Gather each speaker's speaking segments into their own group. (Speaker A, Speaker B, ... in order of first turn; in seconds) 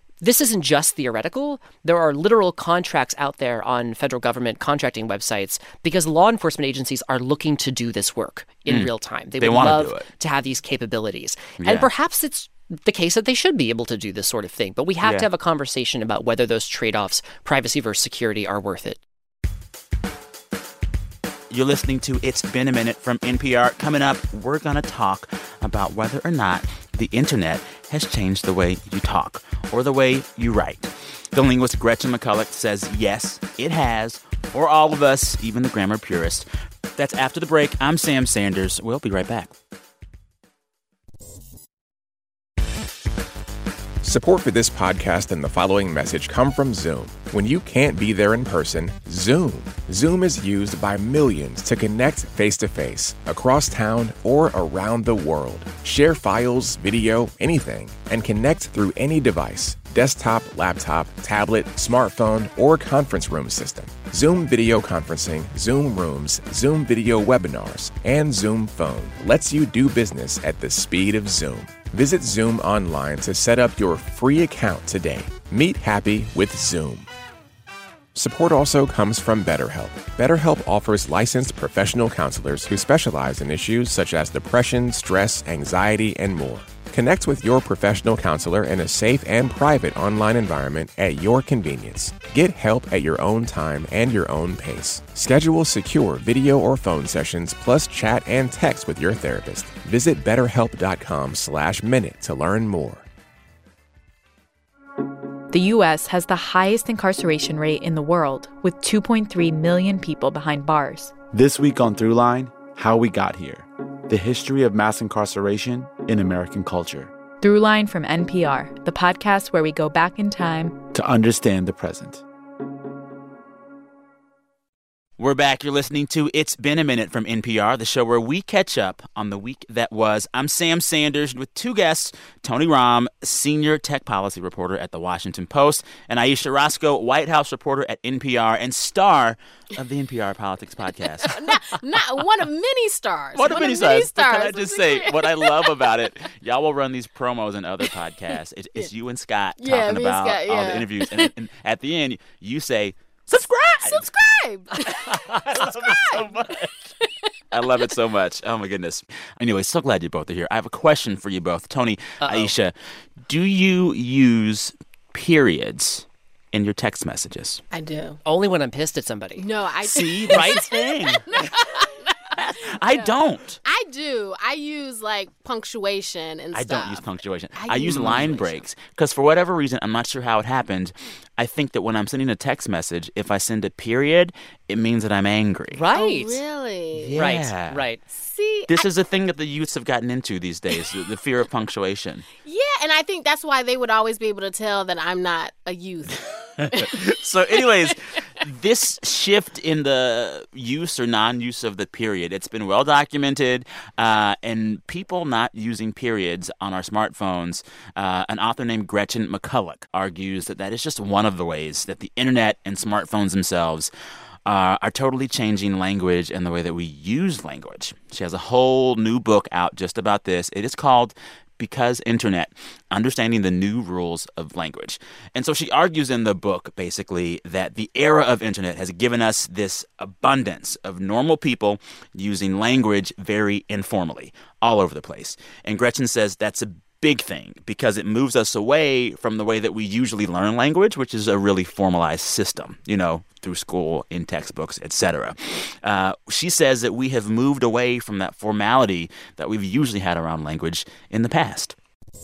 Speaker A: 0.2-19.0, 155.1-155.4, 162.2-162.5, 168.2-169.4, 170.3-170.7, 177.9-178.2, 185.7-186.4, 187.2-188.0
Speaker B: 8.7-10.1, 11.6-11.9, 15.0-15.3, 21.5-39.5, 125.2-141.5, 143.3-154.1, 155.5-156.7, 157.5-162.7, 163.2-167.6, 169.8-171.5, 172.4-173.6, 176.5-185.8, 186.9-187.8, 188.7-192.2, 196.6-213.9, 214.4-251.7
Speaker C: 44.0-77.1, 78.1-103.0
Speaker D: 105.5-111.1, 117.4-120.8
Speaker E: 111.3-117.1, 120.9-122.2
Speaker F: 141.2-145.9, 149.6-151.3, 153.7-156.3, 167.7-168.2, 169.4-172.1, 172.9-178.6, 185.9-187.3, 188.2-188.8, 192.4-196.2, 196.7-197.0, 197.6-197.9